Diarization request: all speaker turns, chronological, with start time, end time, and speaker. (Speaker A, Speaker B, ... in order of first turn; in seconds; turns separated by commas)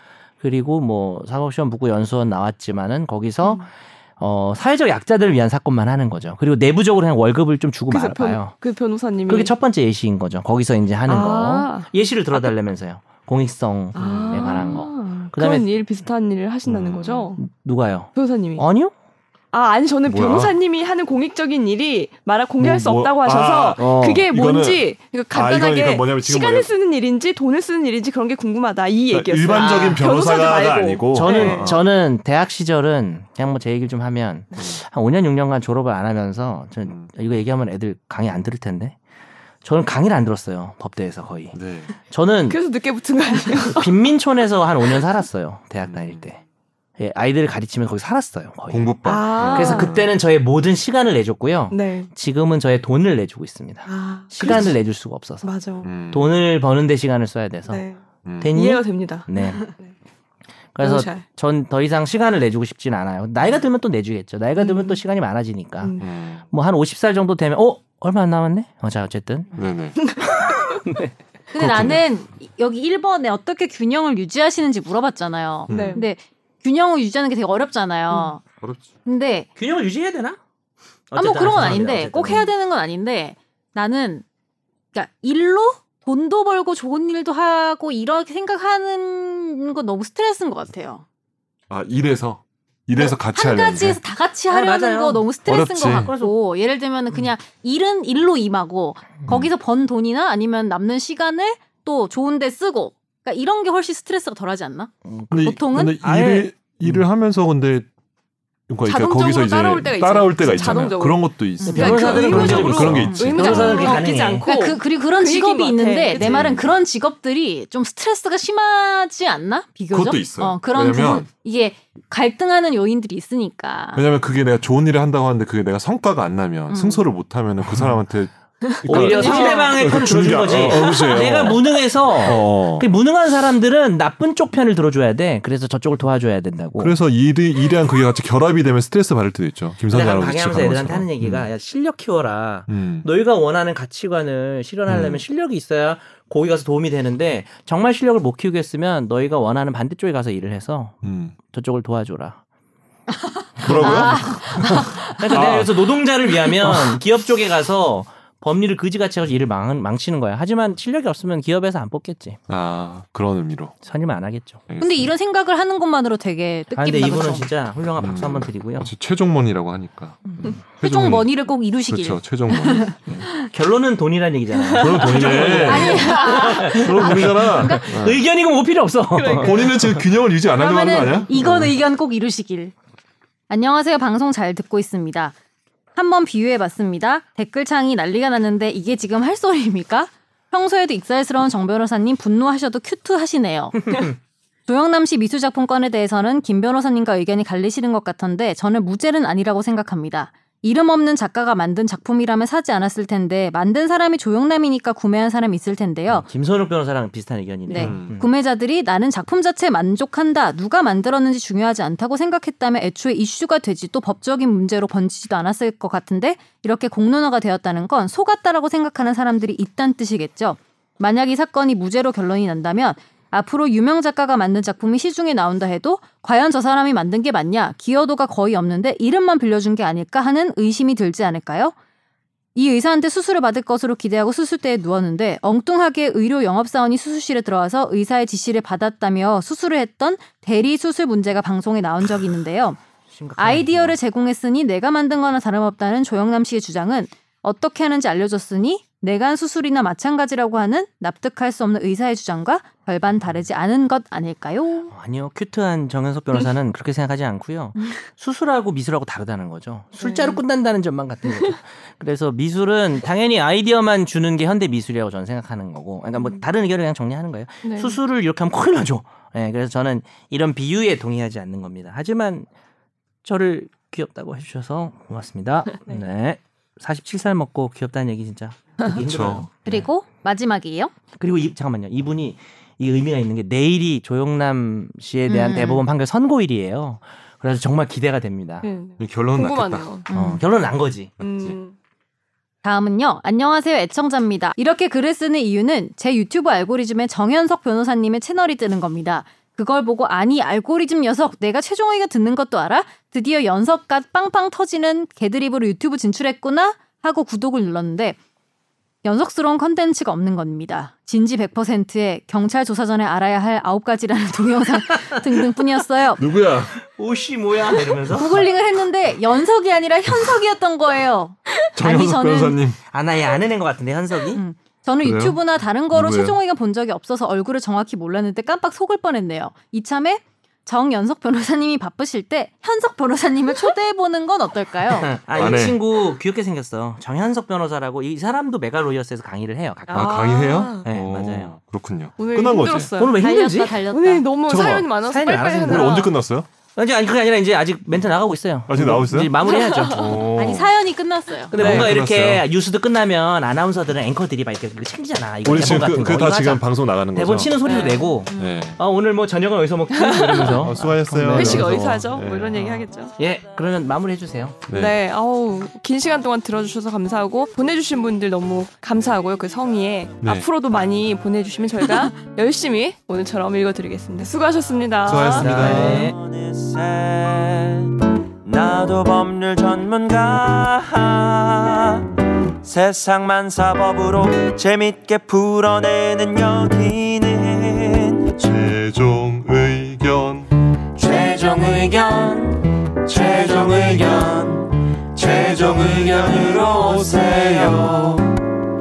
Speaker A: 0.4-8.6, Speaker B: 7.9-9.5, Speaker A: 9.3-15.7, Speaker B: 11.1-11.9, Speaker B: 13.9-17.4, Speaker C: 13.9-14.8, Speaker C: 16.7-17.4, Speaker A: 17.4-18.9, Speaker B: 18.1-18.7, Speaker B: 19.5-31.8, Speaker C: 20.1-20.6, Speaker C: 22.6-26.7, Speaker A: 23.8-24.3, Speaker C: 29.1-31.9, Speaker A: 29.6-30.0, Speaker A: 31.1-39.0, Speaker A: 39.6-41.6, Speaker C: 41.5-41.9, Speaker A: 42.1-42.6, Speaker B: 42.5-43.9, Speaker A: 43.6-46.4, Speaker C: 45.9-46.3, Speaker A: 47.0-55.5, Speaker C: 48.7-50.1, Speaker B: 49.0-50.0, Speaker B: 51.7-52.1, Speaker B: 53.9-54.8, Speaker B: 55.4-55.9, Speaker C: 55.8-56.4, Speaker A: 56.1-57.9, Speaker B: 57.7-58.0, Speaker C: 58.2-58.5, Speaker A: 58.4-59.7, Speaker B: 58.5-59.9, Speaker A: 60.8-69.5, Speaker B: 60.8-61.2, Speaker B: 64.6-65.0, Speaker C: 66.0-66.5, Speaker C: 69.5-70.0, Speaker B: 70.0-70.8, Speaker A: 70.5-71.1, Speaker D: 71.5-78.4, Speaker C: 71.6-72.0, Speaker C: 75.7-76.1, Speaker B: 75.7-76.1, Speaker C: 78.6-78.9, Speaker D: 79.0-79.5, Speaker A: 79.6-80.4, Speaker A: 81.1-82.5, Speaker D: 81.2-84.2, Speaker D: 84.9-91.0, Speaker C: 91.7-94.0, Speaker D: 92.9-106.0, Speaker A: 94.5-95.3, Speaker C: 95.5-96.1, Speaker A: 95.8-96.3, Speaker A: 105.1-107.0, Speaker C: 105.3-107.9, Speaker C: 108.7-114.1, Speaker B: 108.8-116.4, Speaker D: 111.6-124.0, Speaker A: 111.7-114.5, Speaker C: 116.2-116.7, Speaker C: 119.9-121.3, Speaker C: 124.0-132.9, Speaker D: 126.7-127.0, Speaker A: 128.8-137.0, Speaker B: 129.0-129.8, Speaker D: 129.2-129.6, Speaker C: 136.8-141.5, Speaker A: 139.9-152.4, Speaker C: 142.7-143.1, Speaker C: 144.9-145.2, Speaker C: 151.0-151.3, Speaker D: 153.2-155.5, Speaker A: 153.6-162.4, Speaker C: 153.6-155.9, Speaker C: 156.6-157.0, Speaker C: 162.5-163.8, Speaker A: 163.8-164.6, Speaker C: 164.7-165.1, Speaker D: 164.8-167.5, Speaker A: 166.8-168.9, Speaker C: 168.0-173.3, Speaker D: 170.3-173.5, Speaker A: 173.4-180.0, Speaker B: 174.8-176.5, Speaker C: 174.8-178.2, Speaker D: 175.6-177.9, Speaker B: 179.1-179.8, Speaker C: 179.3-181.8, Speaker D: 180.6-182.7, Speaker D: 183.5-185.3, Speaker D: 185.9-194.1, Speaker A: 193.8-194.1, Speaker D: 194.7-206.3, Speaker A: 206.1-208.3, Speaker D: 207.7-231.7, Speaker C: 207.8-208.3, Speaker D: 232.6-242.8, Speaker A: 243.1-244.0, Speaker D: 243.4-254.9, Speaker A: 254.9-272.5, Speaker B: 260.0-260.4, Speaker B: 267.6-268.0, Speaker A: 273.2-279.5, Speaker C: 279.0-279.8, Speaker D: 279.6-280.9, Speaker A: 281.2-288.7, Speaker D: 285.3-285.8, Speaker B: 288.6-290.1, Speaker C: 289.0-290.0, Speaker D: 290.1-290.4, Speaker A: 290.1-291.2, Speaker B: 291.2-291.8, Speaker C: 291.2-291.6, Speaker D: 292.6-308.2, Speaker D: 309.0-316.2, Speaker C: 316.2-316.8, Speaker A: 316.9-318.5, Speaker D: 318.1-322.6, Speaker C: 321.8-322.8, Speaker A: 322.9-324.4, Speaker D: 324.4-335.1, Speaker C: 325.0-325.4, Speaker C: 325.9-326.4, Speaker A: 334.9-340.3, Speaker C: 335.3-335.8, Speaker B: 339.9-340.9, Speaker C: 339.9-342.9, Speaker A: 340.9-341.6, Speaker B: 342.2-346.1, Speaker A: 343.0-343.8, Speaker D: 343.2-344.3, Speaker C: 344.5-346.5, Speaker A: 345.1-346.1, Speaker A: 346.8-350.2, Speaker C: 348.7-350.7, Speaker B: 349.4-350.1, Speaker D: 350.4-351.5, Speaker A: 351.5-361.8, Speaker C: 351.5-352.5, Speaker B: 351.6-352.0, Speaker C: 355.4-358.8, Speaker B: 357.6-358.2, Speaker B: 359.9-360.7, Speaker C: 360.6-362.9, Speaker B: 361.3-363.1, Speaker A: 363.2-364.6, Speaker C: 364.7-365.0, Speaker B: 364.7-375.9, Speaker C: 370.2-370.5, Speaker C: 375.0-376.1, Speaker A: 375.3-376.2, Speaker E: 375.5-377.9, Speaker E: 378.4-388.4, Speaker C: 388.4-390.5, Speaker E: 390.9-398.4